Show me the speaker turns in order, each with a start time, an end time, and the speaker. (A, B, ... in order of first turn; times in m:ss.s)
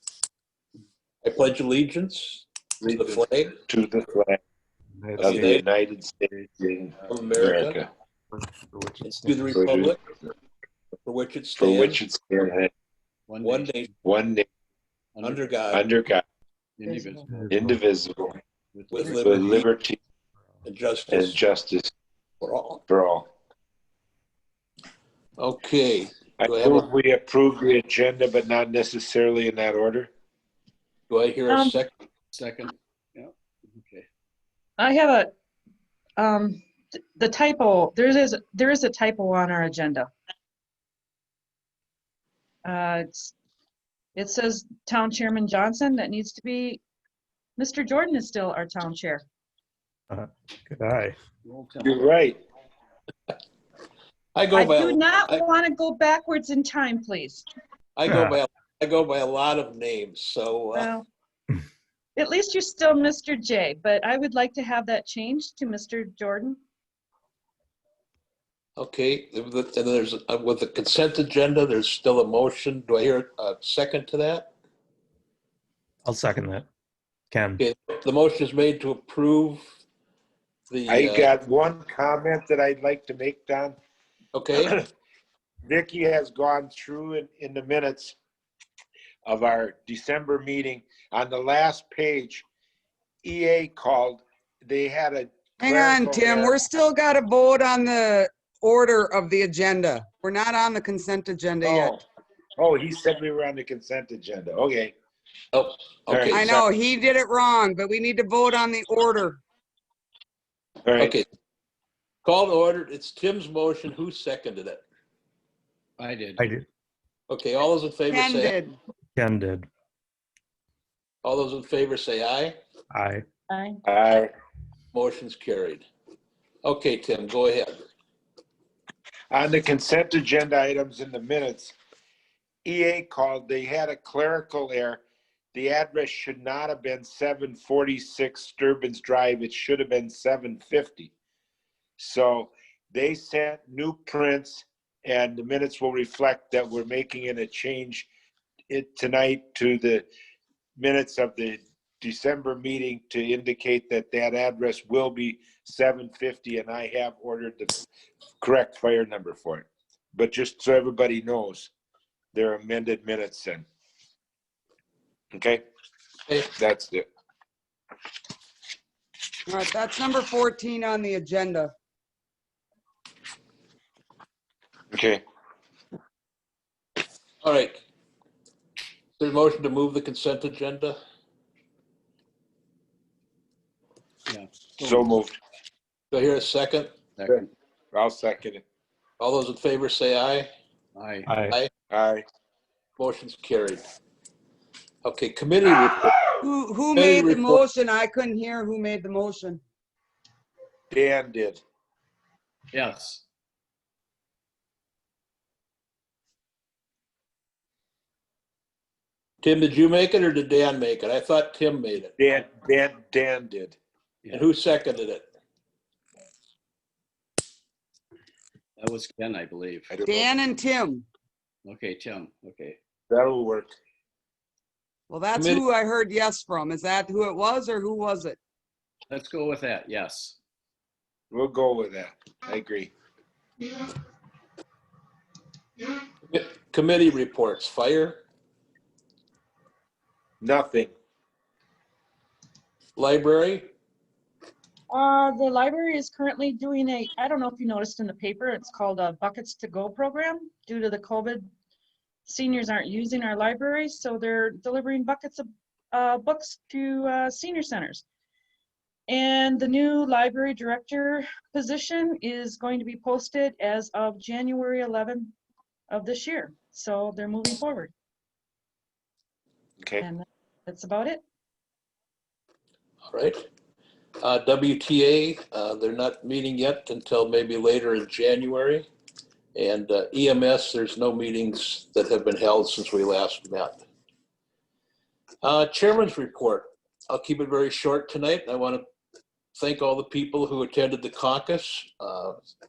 0:01.2-0:03.5 A
0:03.7-0:04.4 B
0:05.0-0:05.4 C
0:05.2-0:05.6 A
0:05.2-0:07.9 B
0:07.1-0:07.8 A
0:08.8-0:09.3 C
0:09.0-0:10.0 A
0:09.5-0:10.2 B
0:11.0-0:12.0 A
0:11.6-0:12.7 B
0:13.3-0:13.8 D
0:13.4-0:13.9 A
0:14.0-0:14.4 B
0:15.1-0:15.4 D
0:15.2-0:15.8 A
0:15.7-0:16.2 B
0:16.8-0:17.2 D
0:17.5-0:18.4 B
0:18.7-0:19.3 D
0:18.9-0:19.7 A
0:19.0-0:20.0 B
0:20.6-0:21.4 A
0:21.1-0:21.9 B
0:22.4-0:22.8 A
0:22.9-0:23.3 B
0:25.4-0:26.9 A
0:26.4-0:30.1 B
0:31.1-0:31.9 A
0:31.5-0:31.8 E
0:32.3-0:34.0 D
0:34.8-0:35.3 E
0:36.2-0:36.6 E
0:37.2-0:40.1 E
0:42.6-0:43.3 E
0:44.1-0:46.8 E
0:47.6-0:49.2 E
0:50.1-0:51.2 C
0:51.4-0:52.1 D
0:51.8-0:52.4 B
0:54.3-0:55.4 A
0:54.5-0:57.4 E
0:58.0-1:00.9 A
0:58.0-0:58.4 C
1:00.7-1:01.1 E
1:02.2-1:06.6 E
1:08.8-1:14.5 A
1:16.0-1:16.6 C
1:17.3-1:17.6 C
1:17.6-1:19.6 A
1:20.7-1:21.3 A
1:20.9-1:23.8 B
1:24.3-1:24.7 A
1:24.5-1:24.8 B
1:25.6-1:28.2 B
1:29.2-1:32.4 B
1:33.2-1:36.6 B
1:35.6-1:41.9 F
1:41.6-1:42.0 B
1:42.6-1:44.9 B
1:45.5-1:46.5 A
1:46.1-1:46.6 B
1:46.3-1:49.4 F
1:50.8-1:51.2 B
1:51.0-1:51.2 A
1:52.2-1:54.8 A
1:56.0-1:56.4 D
1:56.4-1:56.6 C
1:57.3-1:58.6 A
1:58.1-1:58.8 F
1:59.2-1:59.7 C
2:01.2-2:02.6 A
2:02.9-2:03.2 C
2:03.5-2:03.8 E
2:03.8-2:04.3 B
2:04.9-2:05.8 A
2:06.6-2:07.8 A
2:09.3-2:11.7 B
2:12.6-2:15.0 B
2:15.5-2:21.1 B
2:22.0-2:28.1 B
2:28.7-2:30.0 B
2:30.8-2:37.8 B
2:38.4-2:41.7 B
2:42.3-2:43.6 B
2:45.3-2:45.6 B
2:46.5-2:47.0 B
2:49.5-2:51.7 F
2:54.9-2:55.2 B
2:57.4-2:57.8 A
2:59.2-3:01.0 A
3:04.3-3:05.1 D
3:04.8-3:05.4 B
3:06.1-3:06.9 A
3:07.2-3:07.5 D
3:07.9-3:08.6 B
3:09.2-3:10.5 A
3:10.9-3:11.3 D
3:11.2-3:11.5 C
3:11.9-3:12.2 B
3:13.0-3:13.8 A
3:15.0-3:16.2 A
3:16.4-3:19.6 F
3:16.9-3:17.6 A
3:20.9-3:21.6 B
3:22.7-3:23.2 D
3:29.4-3:32.1 A
3:32.2-3:33.8 B
3:34.3-3:35.2 A
3:38.8-3:39.9 D
3:39.9-3:40.3 B
3:40.0-3:41.0 F
3:41.6-3:42.8 D
3:43.1-3:43.7 B
3:45.1-3:48.4 F
3:45.3-3:45.6 A
3:49.1-3:50.4 D
3:51.3-3:52.9 B
3:56.3-3:58.2 A
4:00.4-4:00.9 B
4:03.0-4:03.7 A
4:04.9-4:11.5 E
4:12.2-4:18.0 E
4:19.1-4:25.3 E
4:25.9-4:27.9 E
4:29.8-4:30.0 B
4:30.0-4:31.2 E
4:33.0-4:33.4 A
4:34.2-4:38.9 A
4:39.5-4:43.8 A
4:45.4-4:48.8 A
4:49.5-4:52.4 A